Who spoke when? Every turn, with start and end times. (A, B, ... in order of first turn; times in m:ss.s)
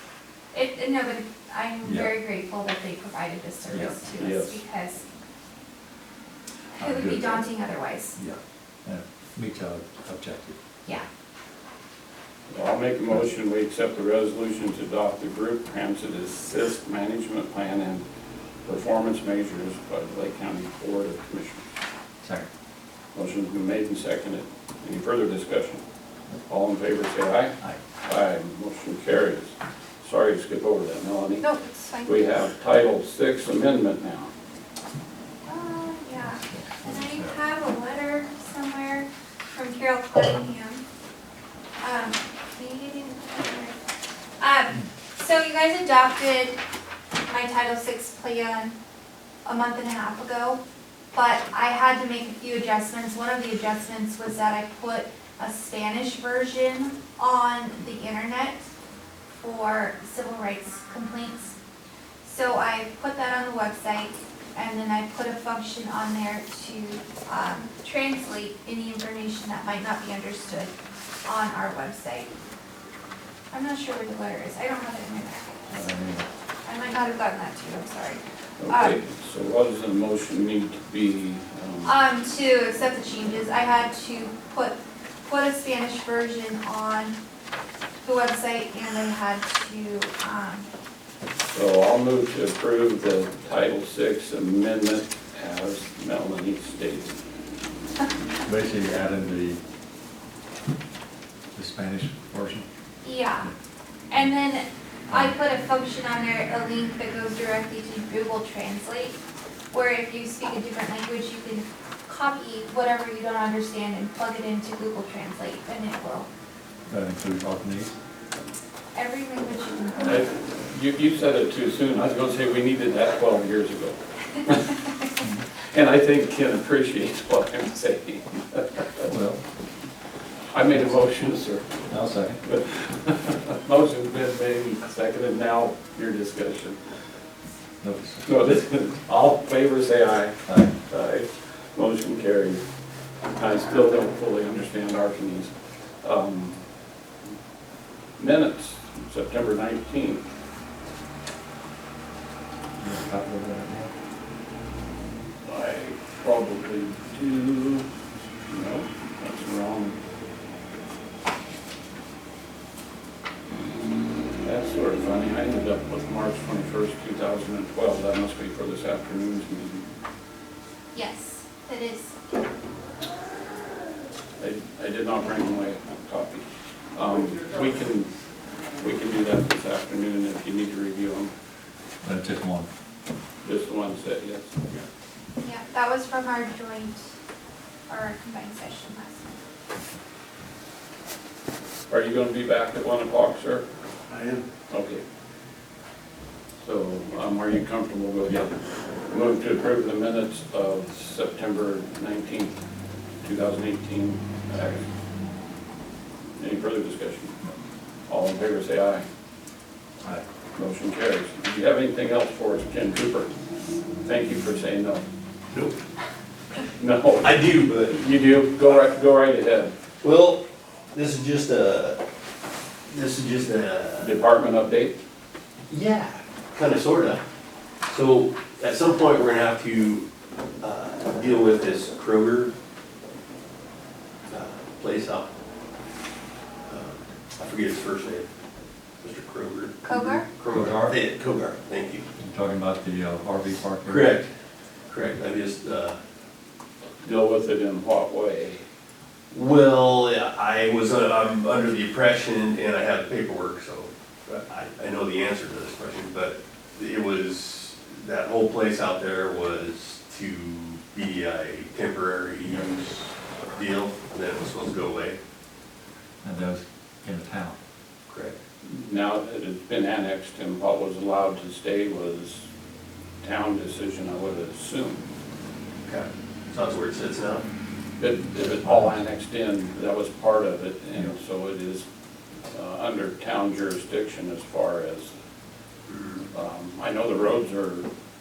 0:00.5-0:05.0 A
0:01.8-0:02.2 B
0:03.7-0:04.0 B
0:04.2-0:04.6 C
0:06.8-0:08.2 A
0:06.8-0:07.5 B
0:08.2-0:10.6 B
0:12.5-0:18.0 C
0:18.6-0:21.6 C
0:22.2-0:22.5 B
0:23.1-0:25.8 C
0:26.5-0:31.5 C
0:31.4-0:32.3 A
0:32.0-0:34.3 C
0:35.4-0:40.8 A
0:36.2-0:37.4 B
0:41.8-0:43.8 A
0:44.4-0:46.6 A
0:47.3-0:48.8 A
0:49.4-0:50.6 A
0:51.1-0:58.6 A
0:59.3-1:01.6 A
1:02.2-1:10.7 A
1:11.2-1:12.3 A
1:13.5-1:15.9 A
1:15.7-1:16.3 B
1:16.7-1:19.0 A
1:18.6-1:22.0 C
1:21.8-1:27.2 A
1:28.0-1:30.7 A
1:31.5-1:37.2 C
1:38.4-1:39.6 B
1:41.6-1:42.7 B
1:43.0-1:43.5 A
1:44.1-1:49.2 A
1:49.7-1:56.3 A
1:56.9-1:58.0 B
1:58.9-2:00.2 A
2:00.0-2:04.8 C
2:05.2-2:05.5 B
2:05.7-2:08.8 C
2:09.0-2:09.4 B
2:10.5-2:11.7 C
2:10.7-2:11.0 B
2:11.9-2:12.4 B
2:12.4-2:16.8 C
2:17.8-2:18.4 B
2:18.2-2:22.6 C
2:20.5-2:20.8 B
2:23.4-2:26.6 C
2:28.2-2:30.3 C
2:32.8-2:33.9 B
2:35.4-2:37.9 C
2:38.5-2:40.0 C
2:44.4-2:49.9 C
2:50.9-2:52.2 A
2:54.4-2:58.1 C
2:58.8-3:01.3 C
3:02.0-3:02.7 B
3:03.4-3:04.5 C
3:05.4-3:07.1 A
3:07.9-3:09.4 A
3:11.9-3:13.6 C
3:14.1-3:14.4 B
3:14.7-3:15.0 C
3:16.6-3:18.5 C
3:19.1-3:22.6 C
3:23.2-3:24.8 C
3:26.4-3:27.4 C
3:28.1-3:29.1 C
3:30.6-3:33.3 C
3:34.0-3:35.0 C
3:35.5-3:35.8 D
3:36.8-3:39.8 C
3:37.2-3:38.0 D
3:40.0-3:42.0 D
3:42.9-3:44.1 D
3:44.0-3:45.0 C
3:45.7-3:47.2 D
3:47.9-3:50.1 D
3:50.6-3:52.5 D
3:54.3-3:55.3 D
3:56.7-3:58.3 D
3:59.0-4:02.1 D
3:59.8-4:00.3 A
4:00.0-4:01.0 B
4:02.2-4:04.1 B
4:03.9-4:04.3 D
4:04.9-4:06.0 D
4:07.0-4:08.6 C
4:09.3-4:25.2 D
4:26.2-4:27.6 B
4:28.1-4:28.4 D
4:28.6-4:32.5 C
4:33.2-4:35.0 C
4:35.8-4:37.5 D
4:38.0-4:41.8 C
4:38.4-4:39.0 B
4:42.5-4:45.1 C
4:45.9-4:46.3 D
4:46.3-4:47.9 C